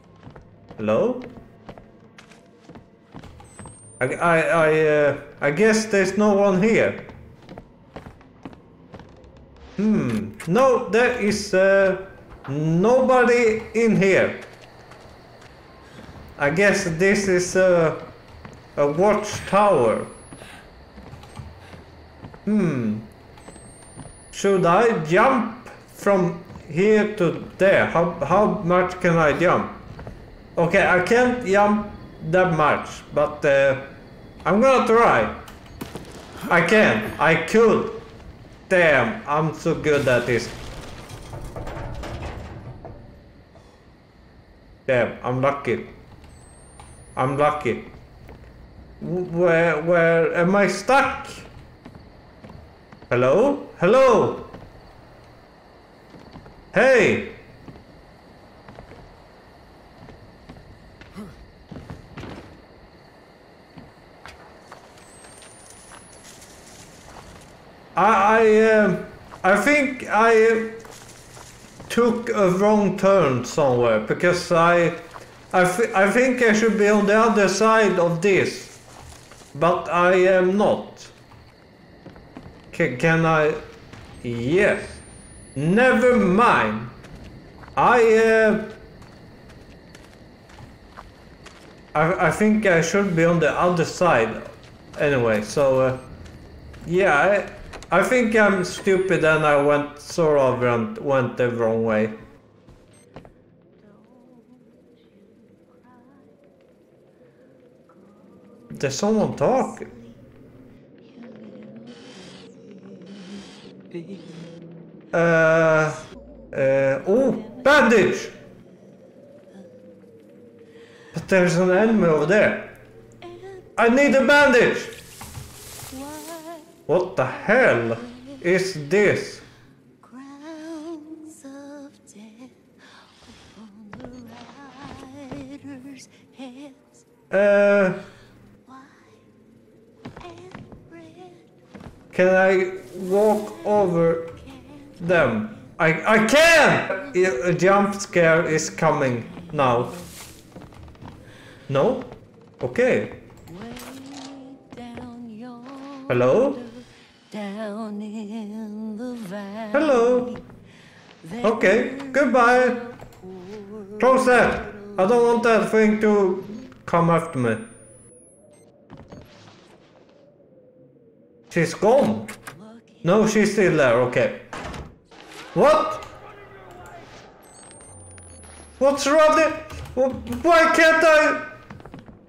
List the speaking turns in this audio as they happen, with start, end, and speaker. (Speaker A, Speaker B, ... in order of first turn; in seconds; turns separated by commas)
Speaker A: 0.8-1.3, Speaker A: 4.0-7.1, Speaker A: 9.8-14.4, Speaker A: 16.4-18.1, Speaker A: 18.8-20.1, Speaker A: 22.5-23.1, Speaker A: 24.3-29.8, Speaker A: 30.6-33.9, Speaker A: 34.5-35.4, Speaker A: 36.5-38.1, Speaker A: 38.7-40.5, Speaker A: 44.9-46.0, Speaker A: 47.2-47.9, Speaker A: 49.0-51.5, Speaker A: 53.1-54.5, Speaker A: 56.7-57.4, Speaker A: 68.0-70.8, Speaker A: 71.9-78.8, Speaker A: 79.5-81.1, Speaker A: 82.7-83.6, Speaker A: 84.2-85.0, Speaker A: 85.6-86.9, Speaker A: 87.8-88.8, Speaker A: 91.9-94.4, Speaker A: 95.0-96.0, Speaker A: 96.8-102.2, Speaker B: 104.0-104.7, Speaker A: 108.7-109.9, Speaker B: 111.2-112.0, Speaker A: 115.1-118.4, Speaker A: 121.1-122.8, Speaker A: 123.8-125.0, Speaker B: 125.9-126.7, Speaker A: 126.9-129.4, Speaker B: 130.1-132.5, Speaker B: 133.5-136.7, Speaker A: 137.3-138.1, Speaker B: 140.2-141.3, Speaker A: 142.1-144.3, Speaker A: 145.0-150.0, Speaker A: 151.7-153.2, Speaker B: 153.6-156.1, Speaker A: 156.1-156.7, Speaker B: 157.3-159.7, Speaker A: 159.7-160.4, Speaker A: 161.4-162.9, Speaker A: 163.9-167.7, Speaker A: 171.5-172.3, Speaker A: 173.0-174.5, Speaker A: 175.5-176.1, Speaker A: 178.8-181.5